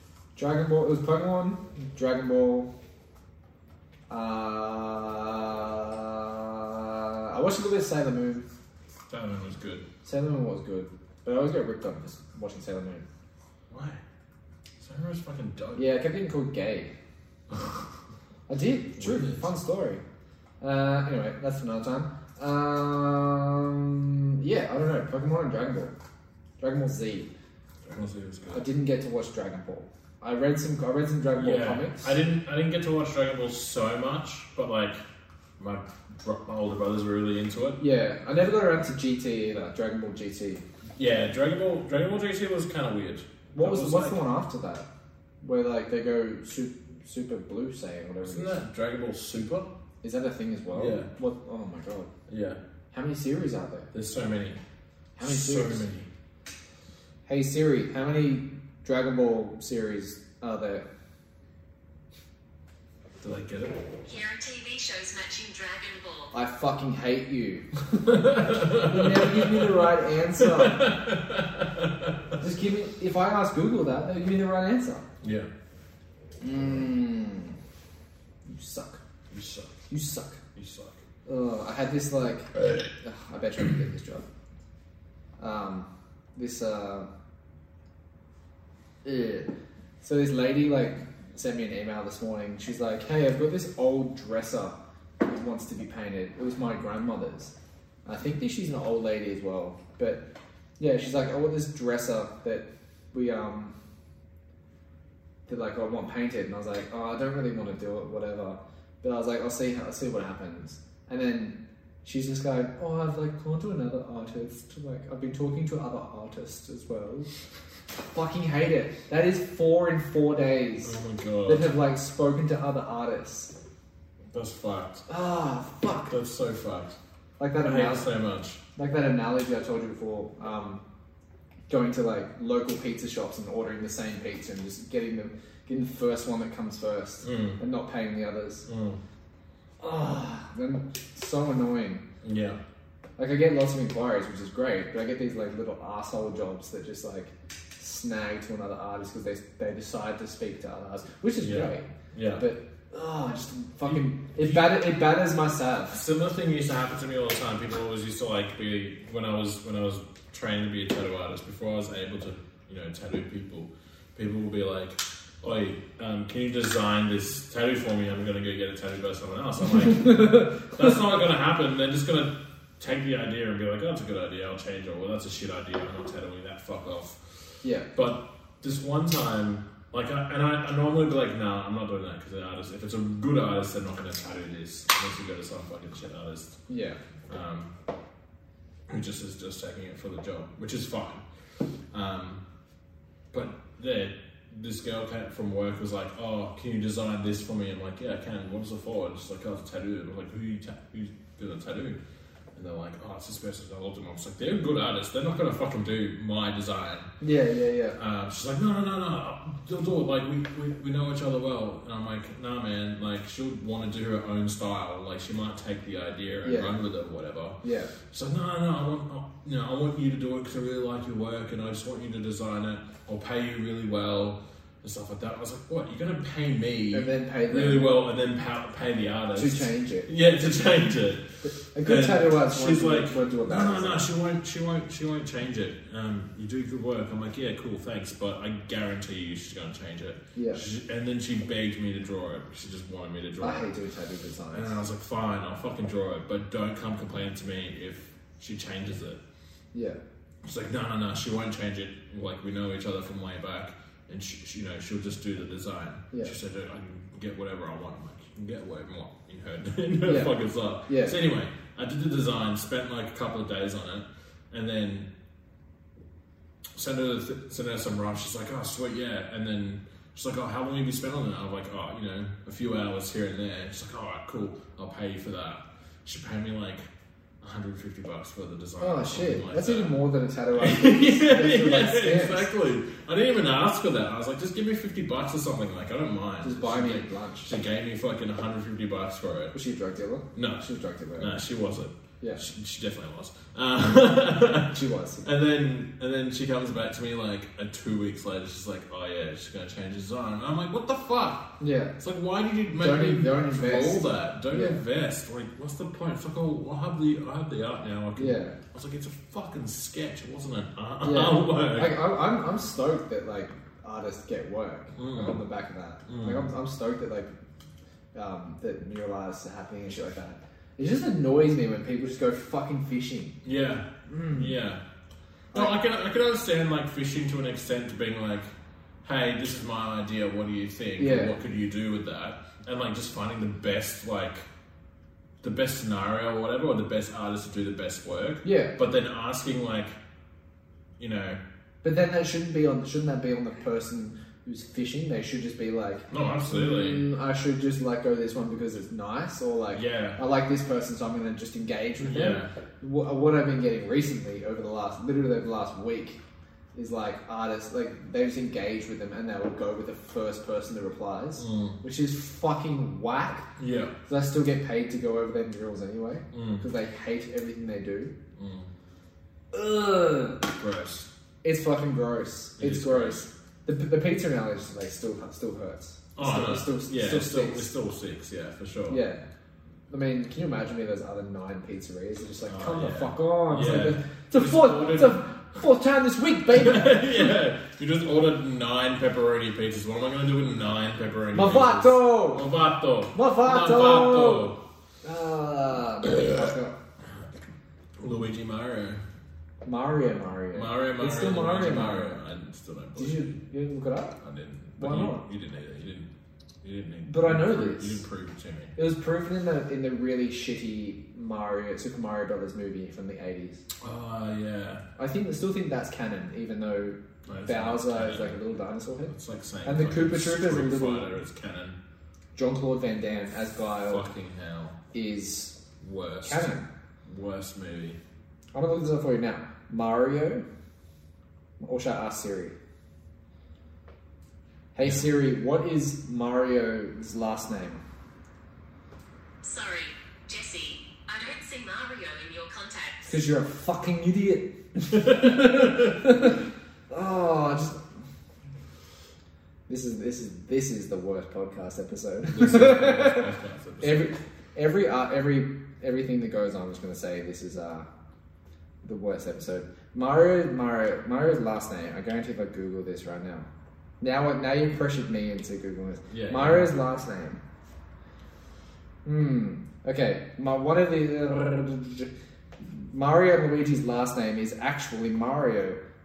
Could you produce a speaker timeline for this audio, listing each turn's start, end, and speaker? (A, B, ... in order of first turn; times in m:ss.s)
0:00.3-0:02.7 A
0:04.1-0:08.4 A
0:09.1-0:09.8 B
0:10.0-0:13.0 A
0:13.7-0:14.0 B
0:14.8-0:15.9 B
0:15.8-0:16.9 A
0:18.5-0:20.0 A
0:19.0-0:19.5 B
0:20.6-0:25.9 A
0:26.6-0:27.3 A
0:27.8-0:28.6 B
0:28.5-0:32.2 A
0:31.4-0:35.0 B
0:35.6-0:37.8 B
0:37.8-0:40.6 A
0:41.0-0:44.2 B
0:43.5-0:44.8 A
0:45.4-0:48.6 A
0:48.2-0:49.7 B
0:50.0-0:52.1 A
0:50.7-0:51.1 B
0:52.3-0:52.6 B
0:52.9-0:53.9 A
0:53.9-0:54.6 B
0:55.2-0:55.8 A
0:55.2-0:56.1 B
0:57.2-1:00.8 A
1:03.2-1:03.8 B
1:04.0-1:06.3 C
1:06.3-1:10.9 A
1:08.1-1:12.2 B
1:12.4-1:15.0 A
1:15.2-1:15.5 B
1:16.4-1:17.6 A
1:18.4-1:19.0 A
1:19.3-1:19.7 B
1:19.9-1:20.4 A
1:20.5-1:21.0 B
1:21.2-1:24.2 A
1:22.5-1:22.9 B
1:25.4-1:27.1 A
1:29.0-1:37.5 A
1:38.0-1:40.2 A
1:40.8-1:43.7 A
1:45.5-1:57.3 A
1:58.0-2:03.5 A
2:00.8-2:01.7 B
2:04.3-2:05.0 B
2:05.1-2:06.1 A
2:06.1-2:07.0 B
2:07.4-2:08.1 A
2:07.6-2:08.6 B
2:08.8-2:10.8 A
2:11.7-2:18.7 A
2:17.2-2:17.6 B
2:18.6-2:19.0 B
2:19.8-2:22.0 A
2:22.2-2:22.6 B
2:23.2-2:36.0 A
2:31.4-2:32.4 B
2:33.8-2:34.8 B
2:35.9-2:57.4 B
2:50.0-2:50.6 A
2:57.6-2:57.9 A
2:57.9-3:06.6 B
3:06.7-3:07.0 A
3:07.3-3:07.7 B
3:08.9-3:11.2 B
3:11.9-3:12.4 B
3:13.3-3:22.0 B
3:22.5-3:27.1 B
3:27.2-3:28.0 A
3:28.0-3:51.2 B
3:36.4-3:36.7 A
3:37.6-3:37.9 A
3:46.9-3:47.9 A
3:49.3-3:50.1 A
3:51.4-3:54.1 A
3:51.8-4:03.7 B
4:00.3-4:00.6 A
4:03.4-4:04.8 A
4:04.5-4:09.2 B
4:09.7-4:10.0 A
4:10.4-4:25.1 B
4:20.0-4:21.2 A
4:26.7-4:36.9 B
4:37.4-4:40.0 B
4:38.8-4:42.5 A
4:40.5-4:49.5 B
4:46.4-4:47.5 A
4:49.5-4:51.4 A
4:50.3-4:50.6 B
4:51.2-5:12.0 B
4:54.7-4:55.3 A
5:01.6-5:01.9 A
5:02.7-5:04.8 A
5:08.2-5:08.6 A
5:11.0-5:17.3 A
5:15.0-5:15.4 B
5:16.1-5:16.5 B
5:18.1-5:23.4 A
5:23.4-5:24.8 B
5:24.1-5:24.5 A
5:25.5-5:34.5 B
5:31.0-5:31.3 A
5:35.4-5:40.0 B
5:38.4-5:38.7 A
5:41.0-5:41.4 B
5:41.8-5:56.2 A
5:46.1-5:47.0 B
5:49.7-5:50.2 B
5:52.0-5:52.5 B
5:56.7-6:03.5 A
6:01.4-6:01.8 B
6:03.6-6:03.9 B
6:04.1-6:08.1 A
6:06.3-6:06.6 B
6:08.4-6:08.7 B
6:09.5-6:10.5 A
6:10.6-6:11.1 B
6:11.4-6:17.7 A
6:12.6-6:13.3 B
6:16.1-6:19.0 B
6:18.9-6:19.2 A
6:19.9-6:27.3 A
6:22.5-6:25.2 B
6:26.5-6:34.6 B
6:31.3-6:32.5 A
6:33.1-6:36.8 A
6:38.0-6:39.0 B
6:39.6-6:42.2 A
6:40.5-6:43.3 B
6:43.0-6:44.2 A
6:44.2-6:46.1 B
6:44.8-6:45.2 A
6:46.6-6:48.8 B
6:47.0-6:48.0 A
6:48.8-6:53.6 A
6:53.8-6:54.8 B
6:55.0-6:59.1 A
6:57.2-6:58.4 B
6:59.1-7:01.8 B
6:59.6-7:01.1 A
7:02.3-7:04.0 A
7:03.8-7:04.8 B
7:04.9-7:05.6 A
7:05.8-7:06.5 B
7:06.2-7:06.7 A
7:07.0-7:08.0 B
7:08.5-7:10.4 A
7:11.6-7:12.5 A
7:14.7-7:17.8 A
7:19.4-7:23.2 C
7:23.0-7:26.4 A
7:26.9-7:27.8 A
7:29.7-7:37.9 A
7:32.3-7:34.2 B
7:38.8-7:43.5 A
7:44.0-7:47.4 A
7:46.1-7:46.7 B
7:49.0-7:55.8 A